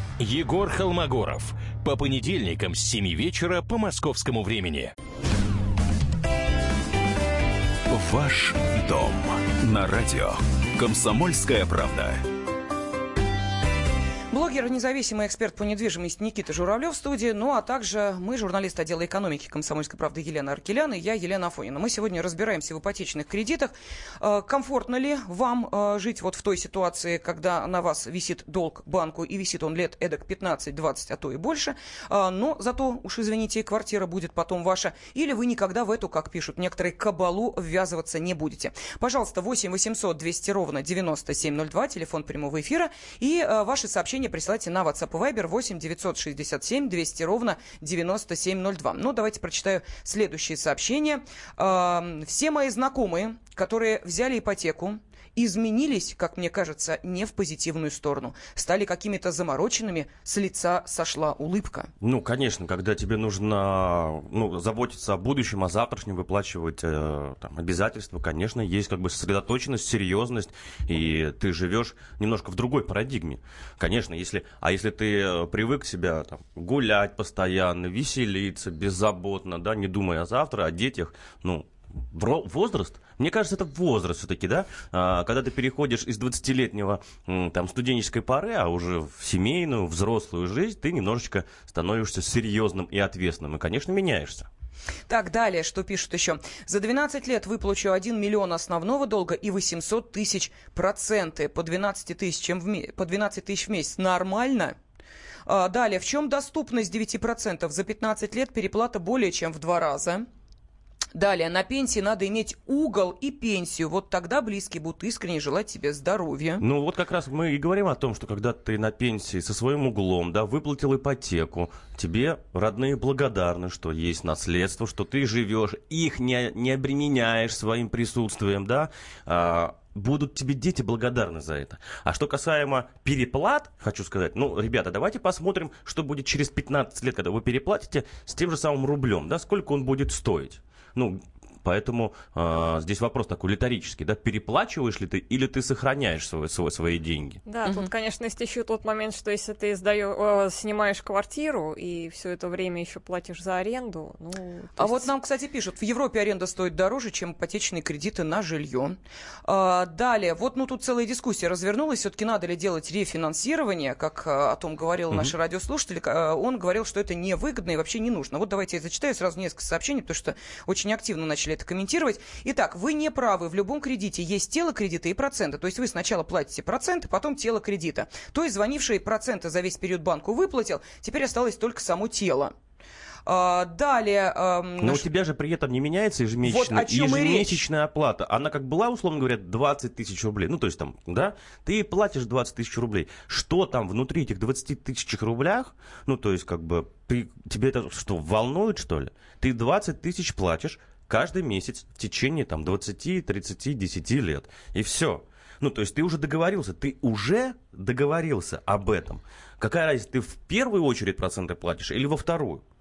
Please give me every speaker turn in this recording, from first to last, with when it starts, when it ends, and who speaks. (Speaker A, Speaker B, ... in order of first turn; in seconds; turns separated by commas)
Speaker A: 0.2-4.9, Speaker B: 7.9-12.2, Speaker C: 14.3-61.9, Speaker D: 62.0-94.5, Speaker C: 95.1-104.8, Speaker C: 105.5-110.2, Speaker C: 111.1-116.6, Speaker D: 116.6-147.4, Speaker E: 147.4-155.1, Speaker C: 154.8-182.5, Speaker C: 183.2-185.0, Speaker D: 184.8-212.6, Speaker C: 186.4-187.6